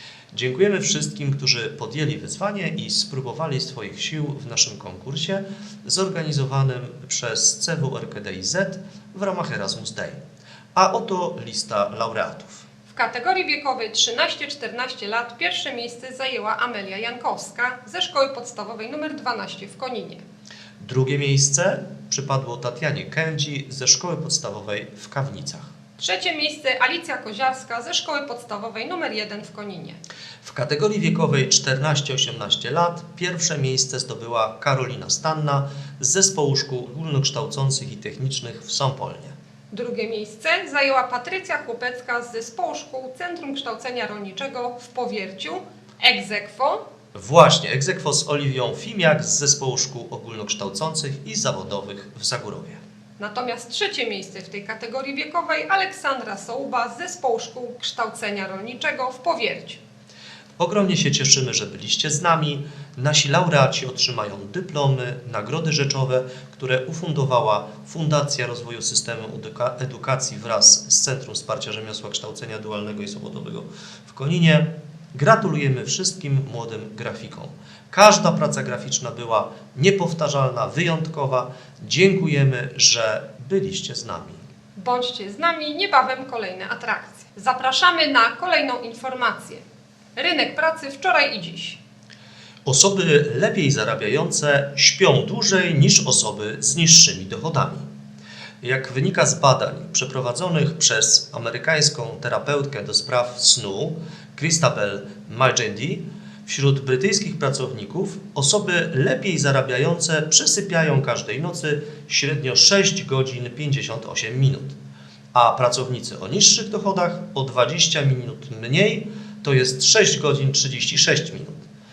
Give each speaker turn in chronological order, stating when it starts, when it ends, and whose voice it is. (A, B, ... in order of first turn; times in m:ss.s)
0:00.3-0:10.2 A
0:10.7-0:12.6 A
0:12.9-0:20.2 B
0:20.8-0:25.7 A
0:26.0-0:30.0 B
0:30.4-0:39.3 A
0:39.7-0:46.8 B
0:47.1-0:52.8 A
0:53.2-0:59.8 B
1:00.6-1:24.4 A
1:24.8-1:29.6 B
1:30.2-1:31.8 B
1:32.6-1:37.9 A
1:38.6-1:54.8 A
1:55.3-2:01.6 A